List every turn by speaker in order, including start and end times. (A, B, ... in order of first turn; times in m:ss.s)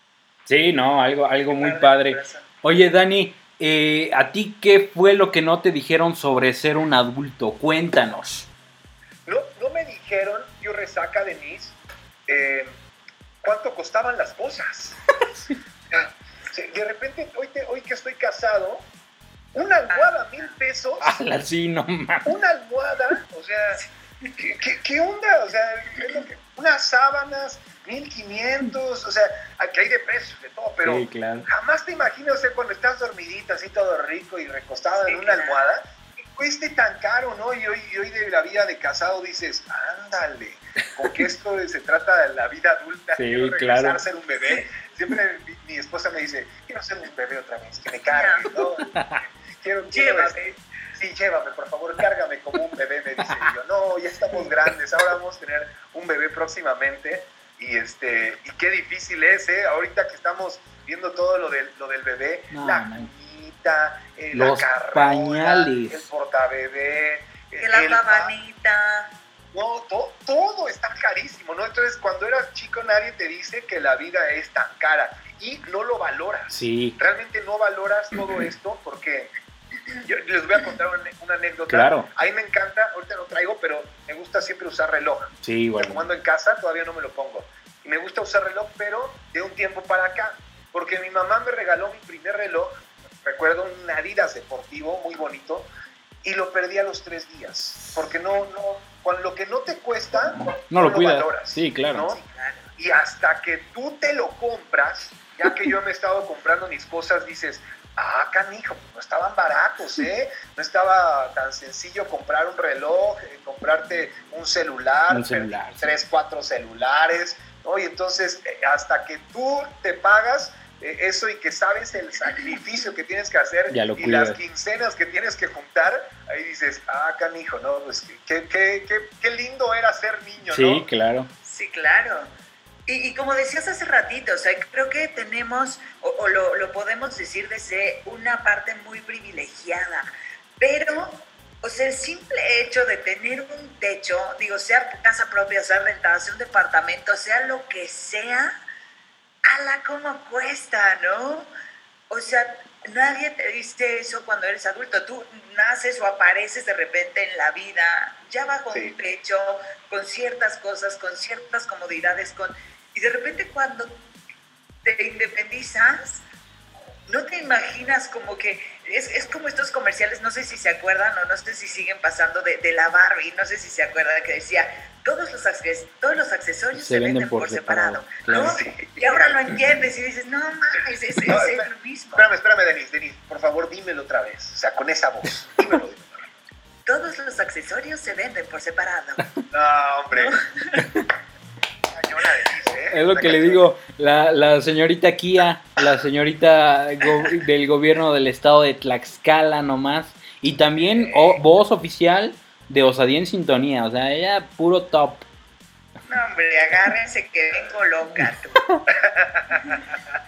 0:00.5-0:08.5 A
0:01.6-0:02.5 B
0:09.2-0:11.8 C
0:12.3-0:12.7 C
0:13.4-0:15.0 C
0:15.9-0:18.8 C
0:19.5-0:21.2 C
0:21.0-0:22.3 A
0:22.2-0:23.8 C
0:23.8-0:24.4 B
0:24.4-0:49.0 C
0:30.8-0:31.5 A
0:35.0-0:35.7 B
0:43.2-0:44.0 A
0:48.1-0:48.6 B
0:48.8-0:49.2 A
0:49.6-0:50.4 C
0:49.9-0:50.6 B
0:50.9-1:08.3 C
1:02.5-1:03.1 A
1:04.3-1:06.0 A
1:07.6-1:09.1 B
1:09.5-1:19.3 C
1:16.5-1:17.0 A
1:20.0-1:35.7 C
1:21.7-1:22.1 A
1:25.4-1:26.0 A
1:36.2-1:42.2 C
1:40.4-1:42.1 A
1:42.1-1:42.7 B
1:42.8-2:10.8 C
1:55.1-1:55.9 A
2:03.7-2:04.4 A
2:10.5-2:11.3 A
2:11.4-2:12.3 B
2:12.9-2:20.1 B
2:20.6-2:28.6 B
2:29.5-2:31.5 B
2:32.1-2:43.9 B
2:44.8-2:46.2 B
2:47.1-3:02.3 B
2:56.7-2:58.6 A
2:58.3-2:59.5 C
3:01.3-3:06.3 C
3:06.8-3:09.3 B
3:09.5-3:10.3 C
3:10.1-3:10.8 B
3:10.8-3:11.0 A
3:11.9-3:13.6 C
3:12.9-3:25.2 A
3:20.9-3:21.4 C
3:26.1-3:28.6 B
3:28.9-3:29.8 C